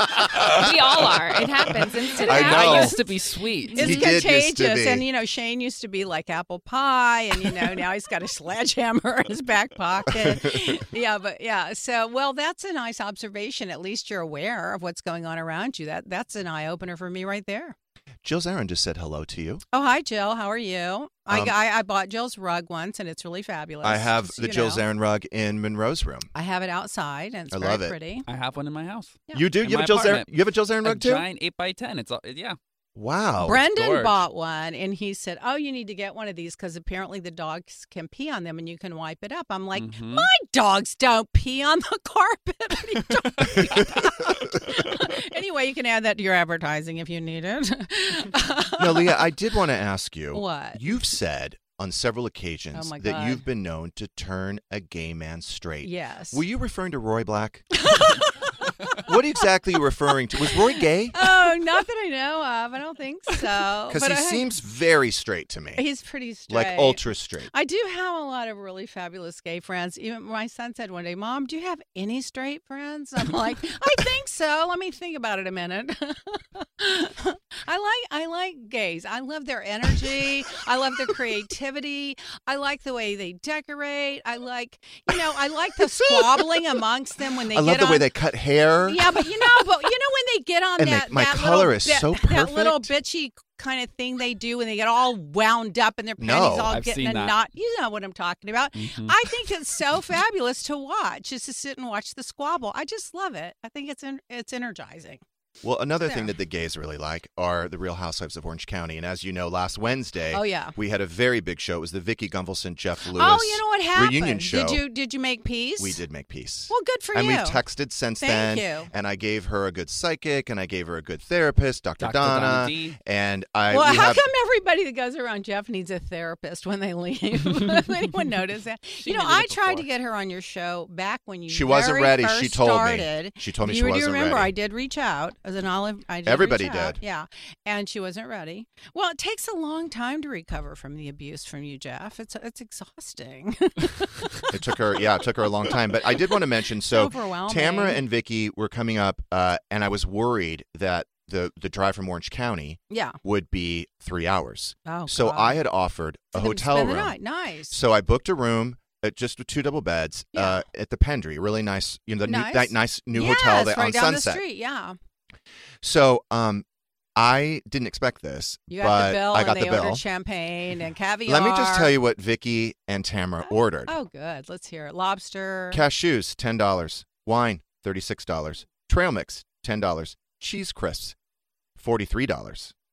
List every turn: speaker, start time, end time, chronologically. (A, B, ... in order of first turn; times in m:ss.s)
0:00.4-0:04.0 A
0:02.1-0:02.9 B
0:02.2-0:03.0 C
0:02.2-0:03.9 D
0:03.7-0:05.0 C
0:03.7-0:17.8 B
0:10.2-0:10.7 C
0:18.2-0:19.6 C
0:19.7-0:24.8 B
0:21.3-0:21.5 C
0:23.8-0:26.3 C
0:26.3-0:28.2 B
0:27.5-0:28.0 C
0:28.3-0:30.3 D
0:29.3-0:31.2 C
0:30.8-0:32.6 D
0:32.9-0:33.6 C
0:33.4-0:49.2 B
0:33.6-0:34.2 D
0:39.7-0:40.3 D
0:48.8-0:57.7 C
0:50.3-0:50.8 B
0:52.7-0:53.4 B
0:55.8-0:56.4 B
0:57.8-0:58.6 B
0:59.0-1:01.3 C
1:00.4-1:04.5 B
1:03.9-1:05.8 C
1:05.7-1:28.1 B
1:06.5-1:07.5 C
1:25.8-1:26.6 C
1:27.5-1:29.5 C
1:28.8-1:45.2 B
1:30.8-1:32.9 C
1:36.2-1:36.7 C
1:36.7-1:37.4 D
1:38.7-1:39.3 D
1:45.6-1:54.8 C
1:46.0-1:46.3 B
1:50.3-1:50.8 B
1:53.1-1:56.0 B
1:55.8-2:04.2 C
1:56.7-1:57.6 B
1:58.2-1:58.9 B
2:02.0-2:03.0 D
2:03.7-2:24.6 B
2:09.0-2:09.9 D
2:11.5-2:14.5 C
2:16.2-2:17.0 C
2:24.5-2:37.2 C
2:25.6-2:26.3 B
2:26.9-2:28.0 B
2:32.9-2:33.2 B
2:34.8-2:35.6 B
2:36.3-2:37.8 B
2:37.7-2:44.4 C
2:40.3-2:40.6 B
2:42.2-2:45.0 B
2:45.8-2:46.6 C
2:47.2-2:50.0 C
2:48.7-2:51.9 B
2:51.3-2:53.9 C
2:53.5-2:55.8 B
2:55.7-3:01.1 C
3:01.8-3:02.7 C